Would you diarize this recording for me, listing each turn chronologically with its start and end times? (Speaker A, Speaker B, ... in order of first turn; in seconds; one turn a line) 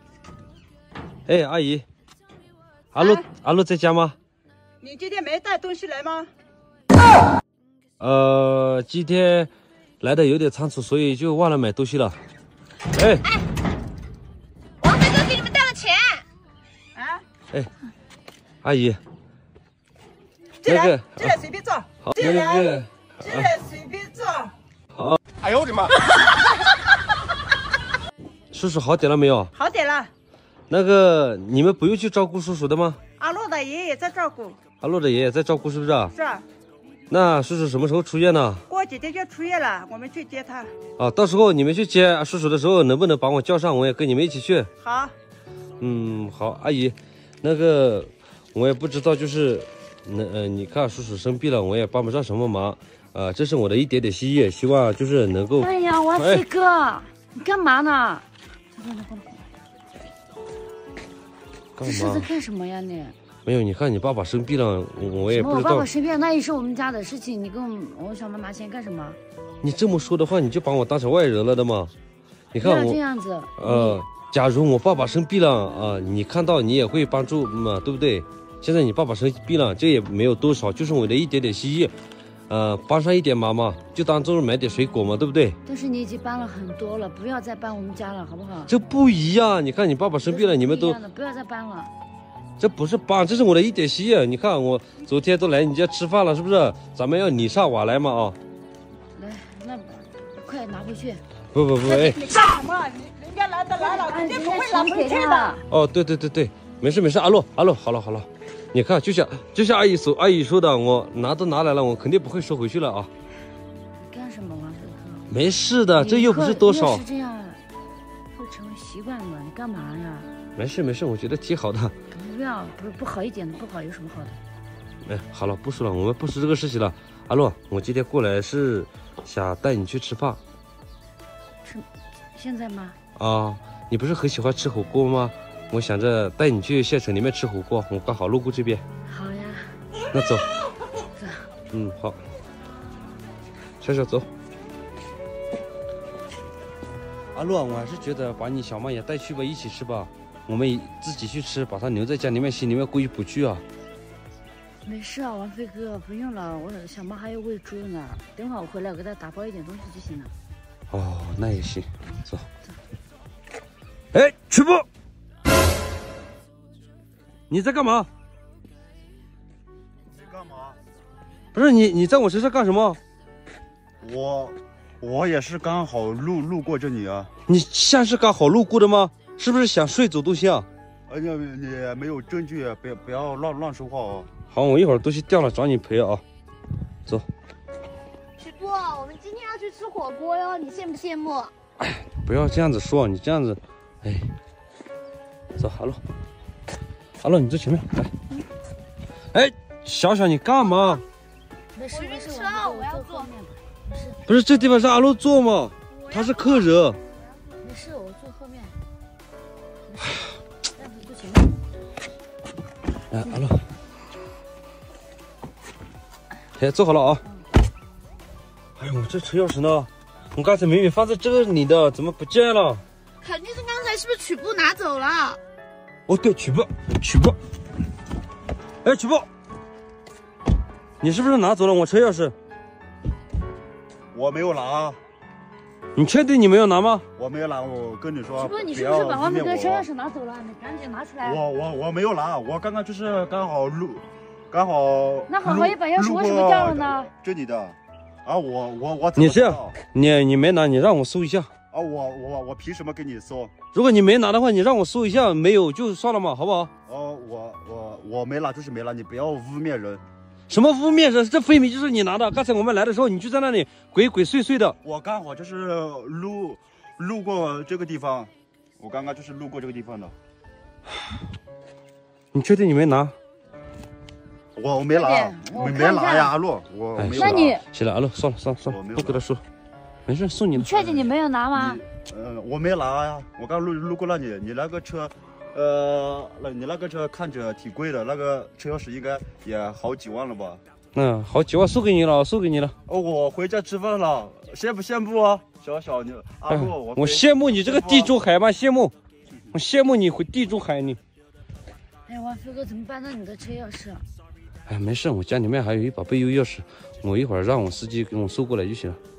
Speaker A: 1.2-1.8
Speaker A: 2.9-4.2
Speaker B: 3.0-3.2
Speaker B: 4.8-6.3
Speaker A: 8.0-12.2
Speaker A: 12.9-13.3
Speaker C: 14.8-16.2
Speaker B: 16.9-17.2
Speaker A: 18.6-19.0
Speaker B: 20.6-24.5
Speaker A: 20.6-21.4
Speaker A: 22.0-23.5
Speaker A: 28.5-29.5
Speaker B: 29.6-30.1
Speaker A: 30.7-33.0
Speaker B: 33.2-34.6
Speaker A: 34.8-36.1
Speaker B: 36.1-36.4
Speaker A: 37.1-38.6
Speaker B: 38.7-40.7
Speaker A: 41.0-44.7
Speaker B: 44.8-45.1
Speaker A: 45.8-56.4
Speaker D: 55.6-59.5
Speaker A: 61.8-62.3
Speaker D: 61.8-63.1
Speaker A: 63.5-65.9
Speaker D: 65.2-69.2
Speaker A: 69.6-71.9
Speaker A: 72.5-73.0
Speaker D: 72.6-74.0
Speaker A: 73.6-81.9
Speaker A: 82.5-85.6
Speaker D: 85.6-88.7
Speaker A: 88.7-91.0
Speaker D: 90.2-91.9
Speaker A: 92.6-98.4
Speaker D: 99.1-101.2
Speaker A: 101.5-102.2
Speaker B: 101.8-105.6
Speaker D: 103.8-105.6
Speaker A: 105.7-113.1
Speaker D: 114.0-115.2
Speaker A: 115.3-117.0
Speaker D: 116.0-117.6
Speaker D: 118.3-120.3
Speaker A: 120.5-121.9
Speaker D: 122.1-124.4
Speaker A: 125.0-130.4
Speaker D: 131.6-133.0
Speaker A: 133.2-138.8
Speaker D: 139.1-139.8
Speaker A: 140.1-140.5
Speaker D: 141.1-141.5
Speaker A: 141.7-142.2
Speaker A: 143.8-144.3
Speaker A: 147.3-153.6
Speaker D: 154.8-160.3
Speaker A: 160.9-162.4
Speaker A: 164.1-164.8
Speaker A: 167.5-168.1
Speaker E: 170.2-170.8
Speaker A: 171.5-173.0
Speaker E: 174.0-177.3
Speaker A: 177.5-180.7
Speaker E: 181.1-184.3
Speaker A: 184.5-186.2
Speaker C: 188.4-191.5
Speaker A: 191.8-194.3
Speaker A: 195.6-196.0
Speaker A: 197.2-198.1
Speaker A: 199.3-201.0
Speaker D: 201.7-204.2
Speaker C: 201.9-203.3
Speaker A: 204.3-207.0
Speaker C: 205.9-206.7
Speaker D: 207.6-208.8
Speaker D: 209.9-210.2
Speaker D: 210.7-211.6
Speaker A: 213.1-213.6
Speaker A: 216.6-217.2
Speaker A: 218.8-222.8
Speaker C: 223.2-225.4
Speaker A: 226.1-227.4
Speaker A: 228.8-229.3
Speaker A: 231.0-232.3
Speaker E: 234.1-235.0
Speaker A: 235.9-237.0
Speaker E: 237.1-239.9
Speaker D: 238.3-241.4
Speaker E: 241.2-249.8
Speaker D: 245.3-247.1
Speaker A: 249.2-251.5
Speaker E: 251.7-253.5
Speaker A: 253.7-256.7
Speaker E: 256.9-260.0
Speaker A: 260.5-264.8
Speaker E: 264.8-270.1
Speaker A: 272.3-273.1
Speaker E: 274.5-277.5
Speaker D: 274.9-276.3
Speaker A: 277.0-279.4
Speaker D: 277.1-277.6
Speaker E: 278.6-279.2
Speaker A: 280.1-280.8
Speaker D: 280.5-281.8
Speaker E: 280.8-290.6
Speaker A: 290.9-292.7
Speaker E: 292.9-298.1
Speaker A: 296.5-298.9
Speaker A: 299.5-301.0
Speaker D: 302.1-304.1
Speaker A: 304.7-309.0